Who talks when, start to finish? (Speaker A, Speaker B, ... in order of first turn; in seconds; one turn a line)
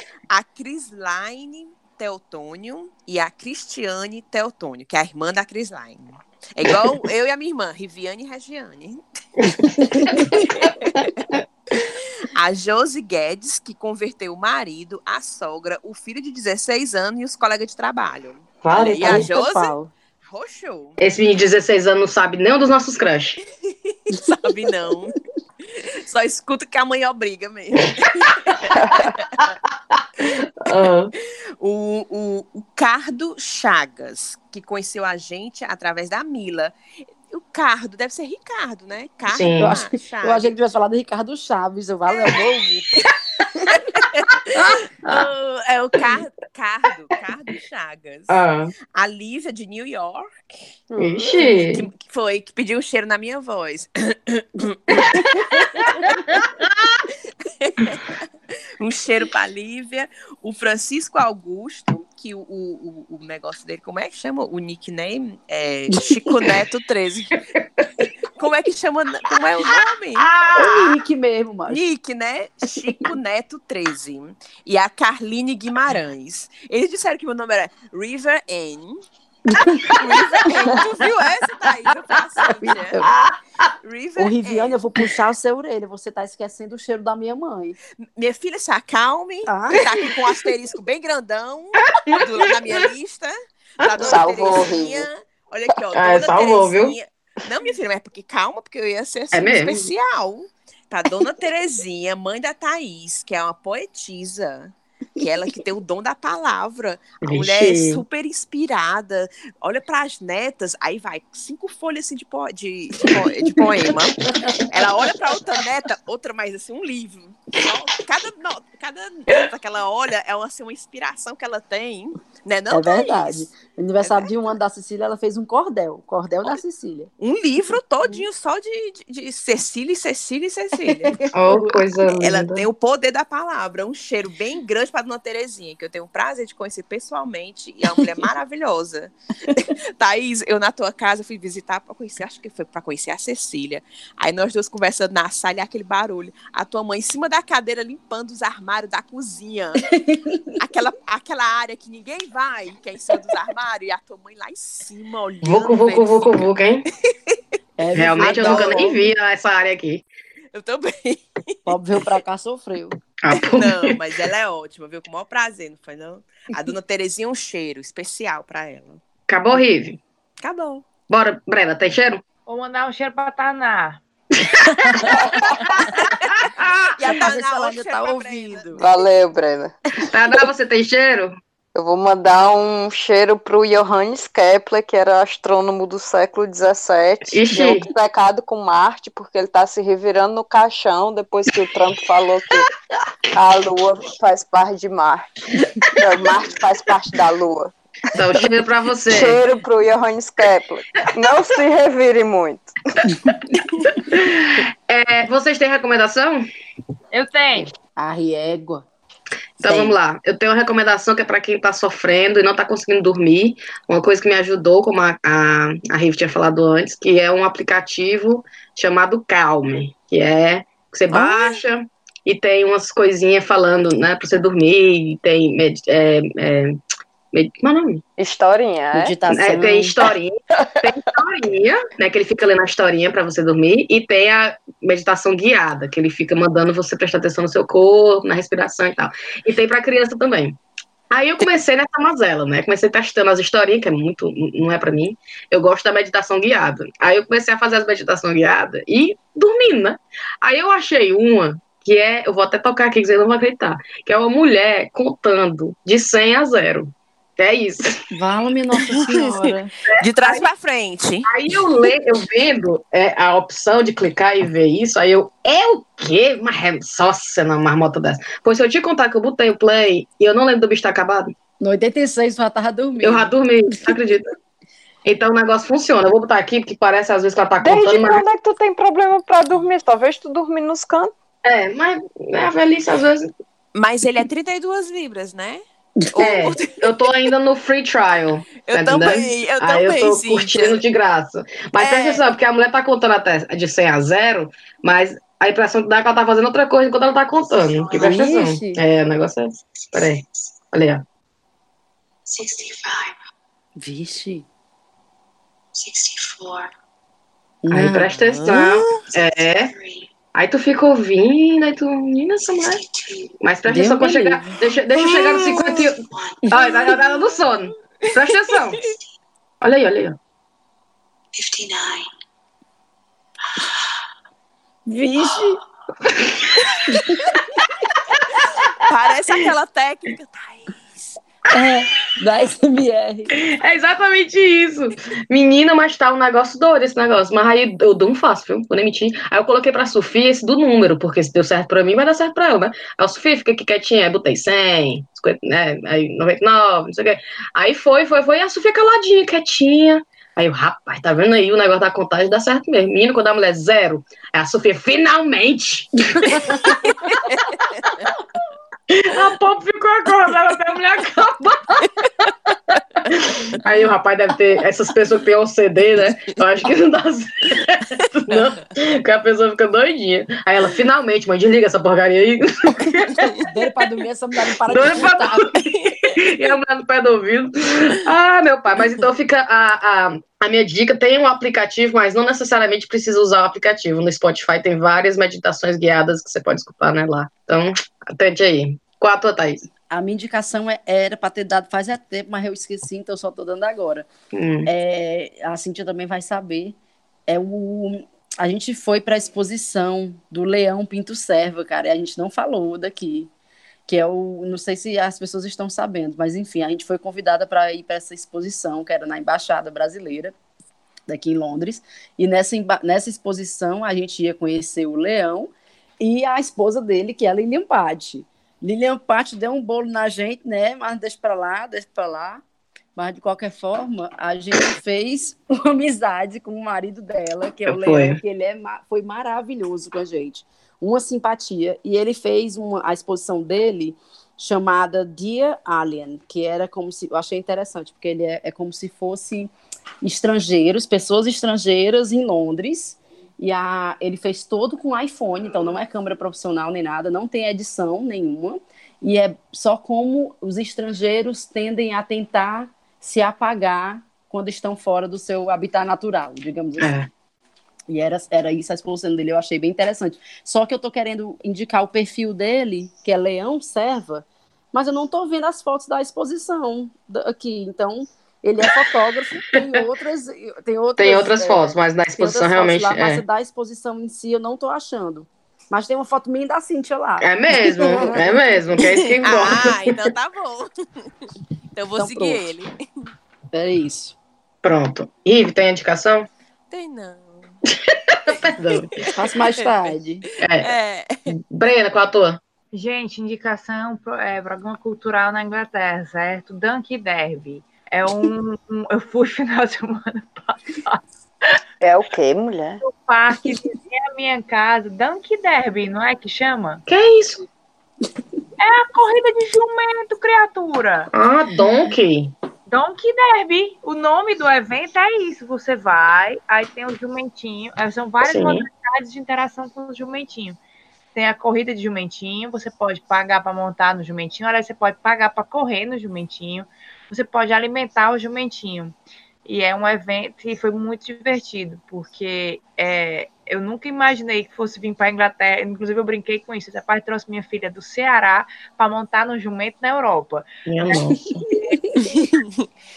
Speaker A: 0.3-9.0
Speaker B: 9.9-10.2
Speaker C: 10.0-11.0
Speaker A: 10.1-11.1
Speaker A: 11.8-19.7
Speaker C: 18.6-19.3
Speaker B: 18.8-19.9
Speaker A: 20.2-21.0
Speaker C: 21.0-23.4
Speaker A: 23.9-25.1
Speaker A: 25.7-29.3
Speaker D: 28.7-29.1
Speaker C: 29.4-31.1
Speaker A: 31.6-36.7
Speaker A: 37.3-40.5
Speaker C: 39.3-39.7
Speaker B: 39.6-42.9
Speaker B: 43.5-43.8
Speaker A: 43.7-48.4
Speaker C: 44.5-45.3
Speaker C: 48.3-48.7
Speaker A: 48.9-50.5
Speaker D: 50.9-51.4
Speaker C: 51.0-51.9
Speaker A: 51.4-55.9
Speaker C: 55.0-56.6
Speaker A: 57.4-58.3
Speaker A: 58.8-67.4
Speaker A: 68.3-70.3
Speaker C: 70.2-70.6
Speaker B: 70.5-71.8
Speaker A: 71.7-79.0
Speaker B: 79.5-80.0
Speaker A: 79.8-83.0
Speaker B: 82.6-83.1
Speaker C: 83.0-83.3
Speaker A: 83.8-84.8
Speaker B: 84.2-87.8
Speaker A: 88.0-124.3
Speaker B: 89.5-89.8
Speaker C: 92.0-92.8
Speaker D: 94.0-95.1
Speaker C: 95.9-96.9
Speaker C: 99.3-99.9
Speaker C: 107.2-108.0
Speaker B: 122.7-127.1
Speaker A: 127.2-131.2
Speaker B: 130.8-131.8
Speaker C: 131.3-132.7
Speaker A: 132.1-149.8
Speaker B: 149.9-150.6
Speaker A: 150.6-156.5
Speaker C: 155.4-156.8
Speaker A: 157.1-157.4
Speaker B: 157.8-159.0
Speaker C: 157.9-160.0
Speaker A: 158.2-158.9
Speaker A: 160.5-161.7
Speaker B: 161.7-162.9
Speaker C: 163.2-164.0
Speaker A: 163.3-169.0
Speaker C: 169.3-170.0
Speaker A: 170.4-170.8
Speaker C: 171.1-172.2
Speaker E: 172.4-174.0
Speaker C: 174.4-176.9
Speaker B: 174.8-175.2
Speaker A: 175.0-175.4
Speaker A: 176.1-178.8
Speaker B: 177.1-178.8
Speaker D: 178.7-179.8
Speaker C: 180.1-181.3
Speaker D: 181.7-192.7
Speaker C: 187.3-187.9
Speaker D: 193.3-198.5
Speaker C: 198.1-199.4
Speaker D: 199.1-203.0
Speaker C: 203.3-206.4
Speaker E: 207.1-207.7
Speaker B: 207.9-208.8
Speaker C: 209.6-226.8
Speaker B: 209.6-209.9
Speaker A: 221.1-221.6
Speaker C: 227.3-228.0
Speaker D: 228.2-229.2
Speaker B: 228.9-229.9
Speaker C: 229.3-240.6
Speaker C: 241.1-258.0
Speaker B: 258.1-259.7
Speaker A: 260.0-261.3
Speaker C: 261.3-271.3
Speaker B: 271.6-273.3
Speaker C: 273.0-274.3
Speaker C: 275.0-278.2
Speaker D: 277.6-281.1
Speaker C: 281.4-283.3
Speaker A: 283.7-287.1
Speaker C: 286.2-301.0
Speaker A: 288.6-290.8
Speaker A: 291.8-292.2
Speaker B: 298.0-298.8
Speaker F: 302.3-303.0
Speaker B: 303.8-304.5
Speaker F: 305.8-306.6
Speaker C: 306.0-306.3
Speaker B: 307.6-308.1
Speaker C: 307.7-309.7
Speaker A: 308.3-309.0
Speaker C: 310.3-312.8
Speaker C: 313.4-318.8
Speaker B: 313.6-314.5
Speaker A: 314.9-315.9
Speaker A: 318.0-318.9
Speaker C: 319.6-320.2
Speaker F: 321.4-322.0
Speaker B: 324.9-325.6
Speaker B: 326.9-327.4
Speaker A: 328.8-331.2
Speaker B: 331.5-333.3
Speaker C: 333.3-357.2
Speaker B: 356.2-356.6
Speaker A: 356.7-357.6
Speaker C: 358.9-362.3
Speaker C: 363.0-373.4
Speaker B: 373.4-375.6
Speaker C: 374.7-389.6
Speaker A: 375.7-376.2
Speaker B: 389.9-394.1
Speaker C: 394.3-394.7
Speaker B: 394.6-403.3
Speaker B: 403.9-410.3
Speaker B: 411.1-422.4
Speaker B: 422.9-439.5
Speaker C: 427.7-428.2
Speaker B: 440.0-457.0
Speaker C: 456.8-457.1
Speaker B: 457.9-471.6
Speaker C: 471.0-473.2
Speaker B: 472.1-478.6
Speaker C: 477.2-480.1
Speaker A: 479.2-483.1
Speaker B: 481.9-482.4
Speaker B: 483.5-484.1
Speaker C: 484.6-486.3
Speaker A: 486.7-487.6
Speaker C: 487.9-488.9
Speaker A: 488.8-489.7
Speaker B: 489.1-490.2
Speaker C: 490.4-490.7
Speaker A: 490.6-491.1
Speaker C: 491.5-492.4
Speaker E: 492.7-501.6
Speaker D: 501.8-502.8
Speaker E: 502.8-506.8
Speaker C: 506.9-507.5
Speaker E: 508.6-511.1
Speaker C: 511.1-512.3
Speaker E: 512.7-520.6
Speaker C: 518.2-518.6
Speaker E: 521.1-540.5
Speaker C: 540.6-541.5
Speaker B: 541.6-542.3
Speaker A: 542.2-542.6